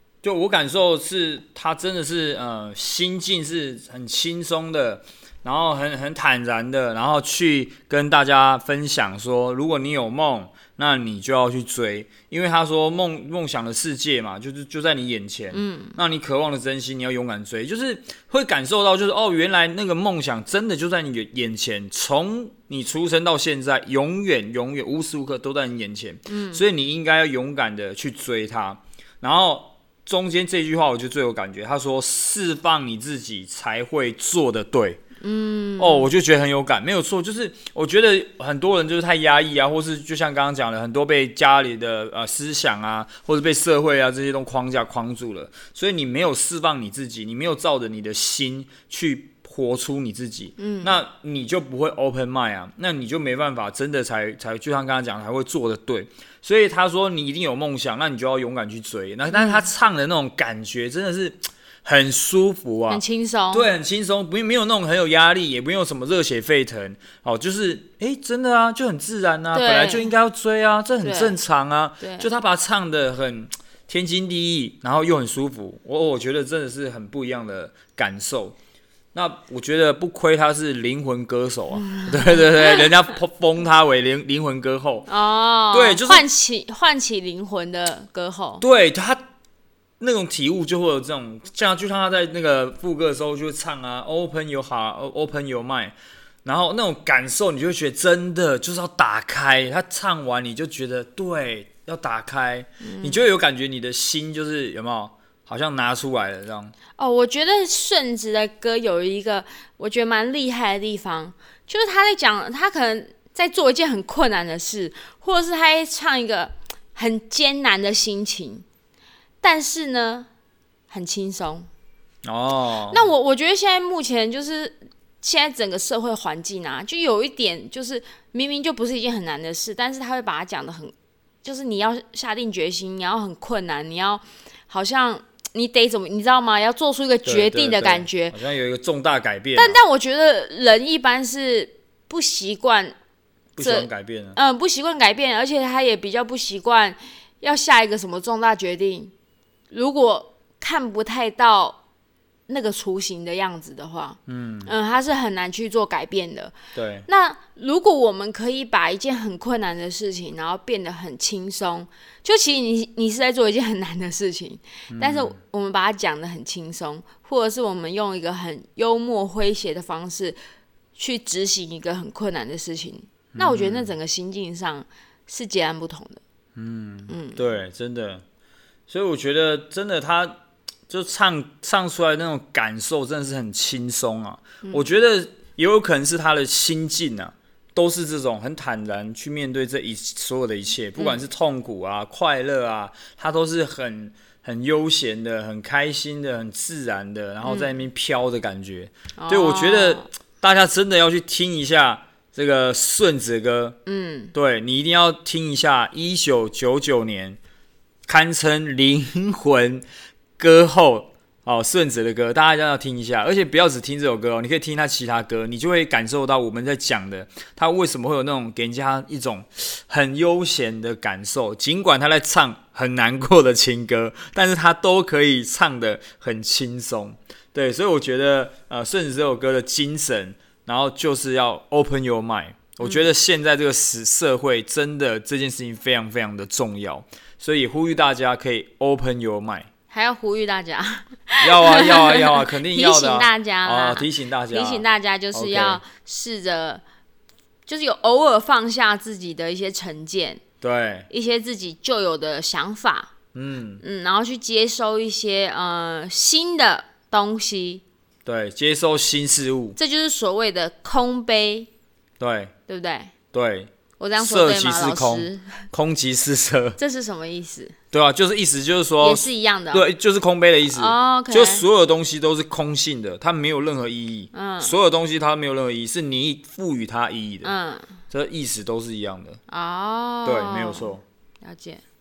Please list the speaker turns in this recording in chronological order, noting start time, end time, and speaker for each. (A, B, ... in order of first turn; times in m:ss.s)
0:00.2-0:35.0 A
0:15.5-0:16.0 B
0:26.3-0:26.6 B
0:35.2-0:36.1 B
0:35.8-1:18.6 A
0:50.6-0:51.0 B
0:59.3-0:59.7 B
1:02.9-1:03.7 B
1:09.5-1:10.1 B
1:11.0-1:11.4 B
1:12.0-1:12.3 B
1:19.1-1:25.1 A
1:21.9-1:22.9 B
1:25.1-1:28.6 B
1:25.7-1:26.2 A
1:28.6-1:29.2 A
1:30.0-1:46.7 A
1:42.8-1:43.2 B
1:47.0-1:58.6 B
1:59.4-2:00.3 B
2:00.9-2:01.7 B
2:02.2-2:03.1 A
2:02.9-2:10.9 B
2:11.4-2:18.4 B
2:17.2-2:19.8 A
2:19.6-2:22.9 B
2:23.6-2:24.4 A
2:23.6-2:29.1 B
2:29.7-2:31.8 B
2:32.5-2:36.6 B
2:34.3-2:34.7 A
2:36.7-2:37.1 A
2:37.1-2:50.4 B
2:44.9-2:45.4 A
2:51.0-2:56.2 B
2:53.3-2:53.9 A
2:56.6-2:58.2 A
2:57.1-2:57.4 B
2:58.9-3:23.8 A
3:17.4-3:17.7 B
3:19.2-3:20.1 B
3:23.8-3:24.3 B
3:24.3-3:27.4 A
3:28.1-3:29.8 A
3:30.4-3:59.7 A
3:52.8-3:53.1 B
3:59.9-4:06.8 B
4:01.4-4:05.8 A
4:07.6-4:10.4 B
4:10.6-4:11.1 A
4:11.1-4:13.1 B
4:13.3-4:13.8 A
4:13.8-4:17.8 B
4:18.2-4:19.8 A
4:19.8-4:21.7 B
4:22.2-4:22.5 A
4:22.7-4:23.1 B
4:23.3-4:26.8 A
4:24.0-4:25.6 B
4:26.8-4:27.7 B
4:27.9-4:37.5 A
4:29.0-4:29.9 B
4:30.7-4:31.6 B
4:34.3-4:34.8 B
4:37.4-4:37.9 B
4:38.1-4:39.4 A
4:39.5-4:41.8 B
4:40.2-4:41.0 A